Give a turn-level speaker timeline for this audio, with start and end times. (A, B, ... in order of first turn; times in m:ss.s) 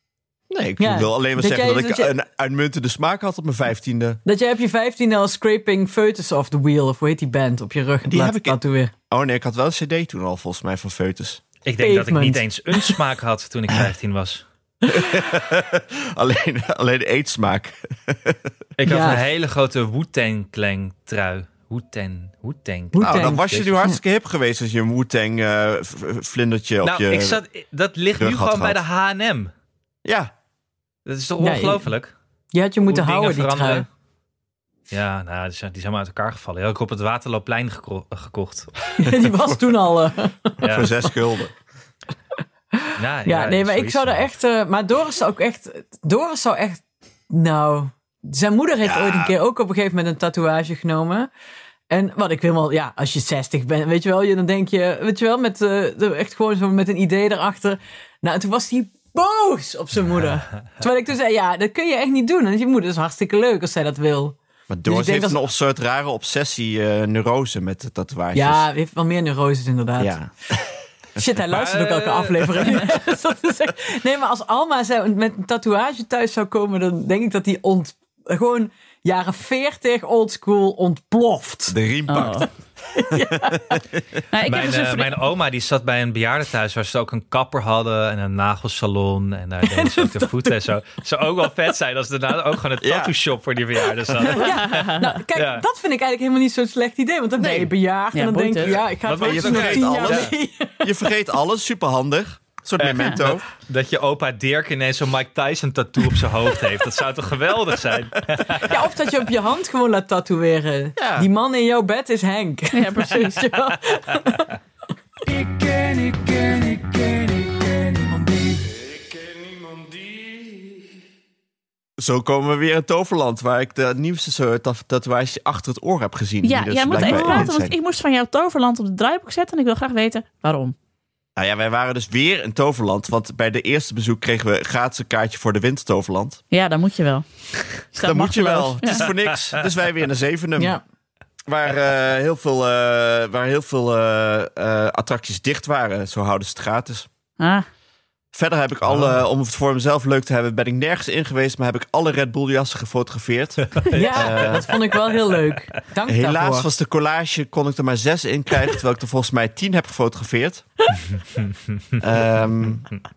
0:00.5-0:04.2 A
0:00.8-0:02.1 B
0:04.2-0:08.9 B
0:08.1-0:08.6 A
0:09.1-0:11.4 A
0:11.6-0:14.4 C
0:11.8-0:13.0 B
0:14.9-0:18.4 A
0:18.8-0:23.7 C
0:18.8-0:19.2 B
0:22.9-0:24.0 B
0:23.0-0:27.4 A
0:26.8-0:29.5 C
0:28.2-0:28.8 A
0:30.0-0:30.3 A
0:31.1-0:32.1 C
0:31.4-0:31.9 B
0:32.5-0:33.9 B
0:32.8-0:33.9 C
0:34.9-0:38.8 C
0:39.0-0:40.5 B
0:40.6-0:40.9 C
0:40.6-0:41.5 A
0:42.8-0:51.3 B
0:43.0-0:44.3 C
0:48.8-0:49.3 A
0:51.9-1:05.4 B
1:04.7-1:08.7 A
1:08.4-1:10.2 B
1:10.0-1:11.2 A
1:11.2-1:21.8 B
1:11.5-1:12.9 C
1:21.7-1:22.5 A
1:22.1-1:22.5 D
1:22.9-1:23.8 B
1:23.1-1:23.8 A
1:24.3-1:25.2 D
1:24.5-1:35.6 C
1:29.6-1:30.6 B
1:32.8-1:33.1 A
1:34.3-1:40.9 B
1:34.4-1:35.1 D
1:37.4-1:38.8 D
1:38.7-1:40.3 C
1:39.2-1:43.4 A
1:42.8-1:48.8 C
1:48.6-1:54.5 B
1:51.0-1:51.3 A
1:52.7-1:53.4 D
1:55.3-2:00.8 E
1:58.1-1:58.5 B
2:02.0-2:07.8 A
2:06.4-2:10.8 D
2:07.0-2:07.5 B
2:11.4-2:16.4 A
2:16.5-2:19.1 D
2:18.0-2:20.8 A
2:21.5-2:27.1 A
2:27.4-2:27.7 D
2:28.3-2:34.7 A
2:33.7-2:35.2 C
2:33.9-2:36.7 B
2:36.1-2:40.7 A
2:41.2-2:41.5 C
2:42.0-2:42.9 A